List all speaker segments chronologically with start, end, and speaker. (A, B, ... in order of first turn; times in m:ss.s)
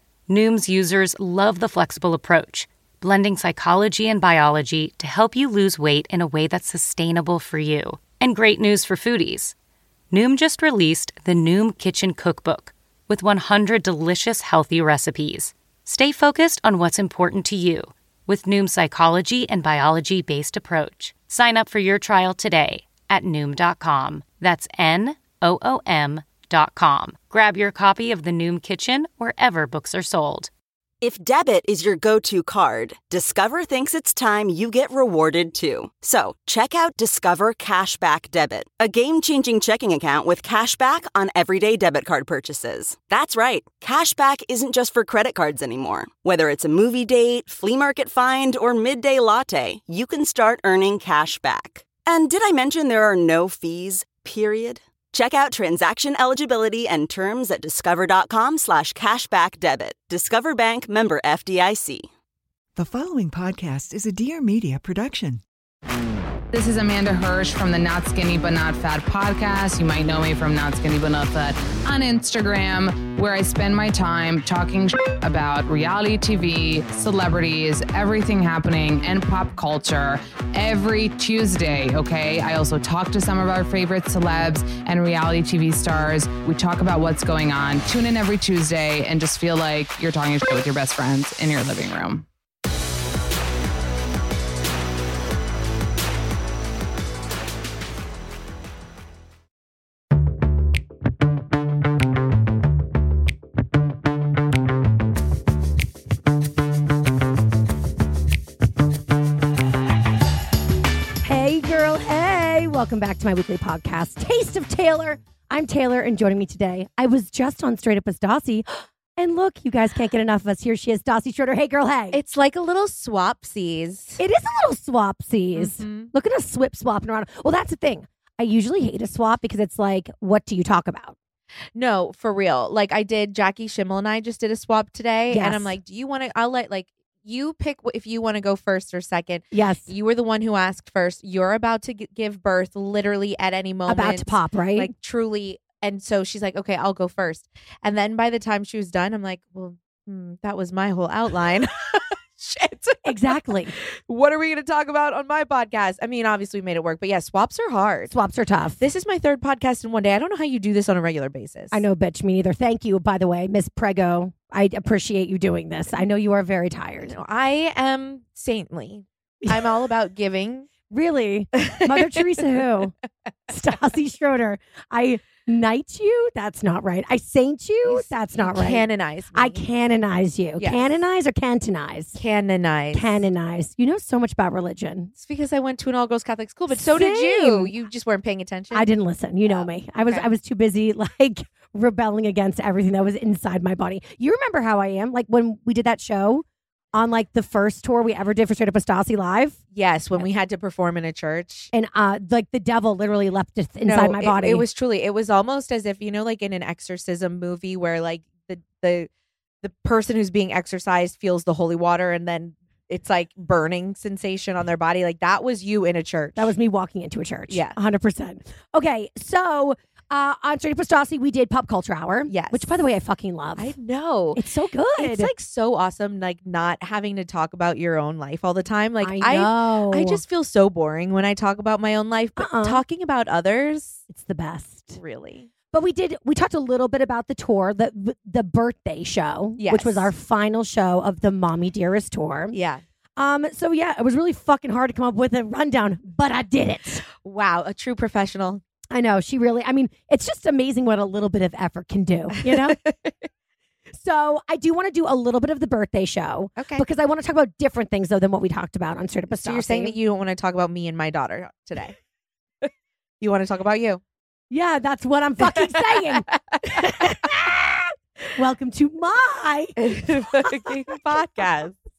0:00.3-0:09.5 A
0:10.1-0:30.5 A
0:31.0-1:02.1 B
1:02.8-1:05.4 C
1:06.5-1:32.2 D
1:51.2-2:02.2 E
2:02.1-2:04.2 F
2:04.2-2:11.1 E
2:05.5-2:06.1 F
2:11.7-2:38.1 F
2:15.3-2:15.8 E
2:19.5-2:19.9 E
2:23.8-2:24.9 E
2:33.0-2:33.7 E
2:38.1-2:38.8 E
2:38.8-2:41.8 F
2:41.7-2:47.2 E
2:47.0-2:50.7 F
2:49.4-2:49.7 E
2:50.9-2:52.9 E
2:51.6-2:52.4 F
2:53.5-3:02.2 E
2:57.8-2:59.6 F
3:00.6-3:00.9 F
3:02.2-3:03.2 F
3:02.9-3:05.1 E
3:05.2-3:08.9 F
3:06.7-3:07.7 E
3:08.7-3:19.6 E
3:09.5-3:10.2 F
3:19.7-3:21.7 F
3:21.7-3:24.6 E
3:23.8-3:29.1 F
3:29.6-3:36.5 F
3:36.4-3:43.7 E
3:37.5-3:37.8 F
3:42.3-3:42.7 F
3:43.6-3:44.4 F
3:44.3-3:45.3 E
3:45.0-3:54.0 F
3:49.0-3:50.2 E
3:52.4-3:52.8 E
3:54.1-3:55.0 E
3:55.0-3:55.5 F
3:55.7-4:02.6 E
3:59.6-4:00.1 F
4:02.5-4:02.8 F
4:03.2-4:07.0 E
4:07.2-4:08.6 F
4:08.9-4:12.8 E
4:12.4-4:13.1 F
4:13.9-4:20.0 E
4:16.6-4:16.8 F
4:19.4-4:22.0 F
4:23.2-4:24.0 F
4:24.5-4:31.2 E
4:25.4-4:27.5 F
4:29.8-4:31.8 F